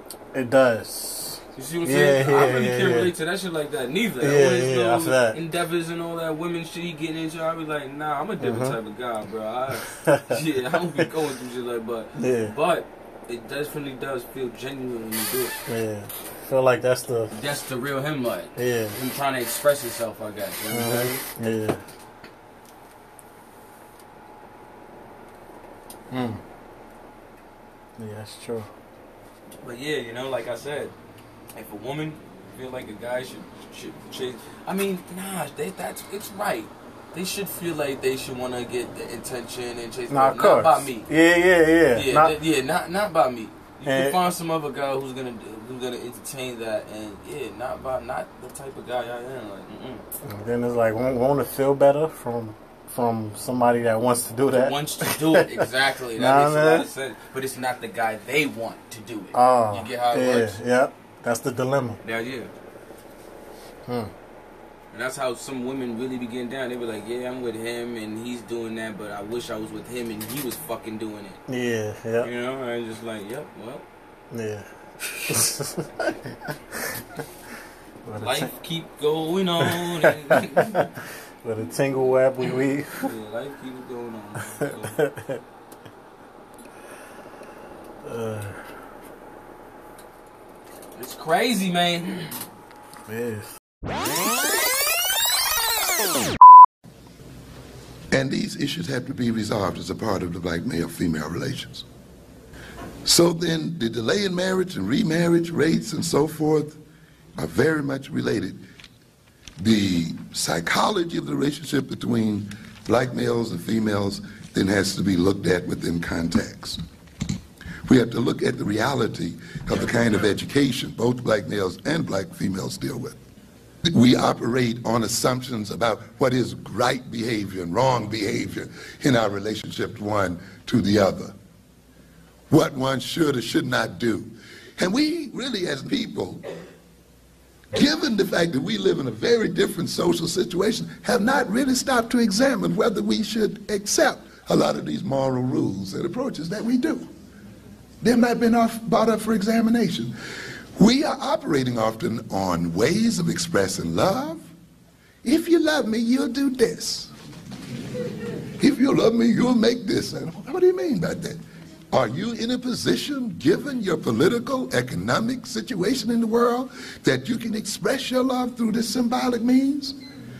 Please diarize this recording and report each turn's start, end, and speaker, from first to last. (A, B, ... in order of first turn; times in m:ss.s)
0:00.3-0:03.1 A
0:01.5-0:15.6 B
0:04.2-0:05.4 A
0:08.4-0:08.8 A
0:10.0-0:10.4 A
0:12.2-0:12.5 A
0:15.7-0:17.3 A
0:17.3-0:21.2 B
0:18.6-0:19.0 A
0:20.7-0:21.8 A
0:26.1-0:26.4 A
0:28.0-0:28.7 A
0:29.6-0:30.9 B
0:31.5-0:41.1 B
0:40.1-0:42.3 A
0:41.9-0:50.0 B
0:43.8-0:44.2 A
0:50.2-0:55.6 A
0:54.5-1:00.6 B
0:56.2-0:56.9 A
0:59.3-1:02.0 A
1:02.0-1:02.5 B
1:03.9-1:04.1 A
1:04.9-1:11.4 B
1:11.5-1:12.3 A
1:12.2-1:13.8 B
1:14.3-1:16.5 A
1:18.0-1:18.5 A
1:18.2-1:20.9 B
1:19.6-1:20.8 A
1:21.4-1:23.1 A
1:23.0-1:25.0 B
1:24.7-1:25.4 A
1:28.0-1:28.6 A
1:31.0-1:32.4 B
1:33.1-1:33.5 A
1:38.1-1:41.8 C
1:43.0-1:46.8 C
1:47.4-1:48.6 C
1:49.6-1:56.8 C
1:57.8-2:03.2 C
2:03.8-2:11.3 C
2:12.5-2:16.4 C
2:17.7-2:27.1 C
2:28.0-2:30.1 C
2:30.8-2:34.5 C
2:35.2-2:37.1 C
2:38.6-2:50.0 C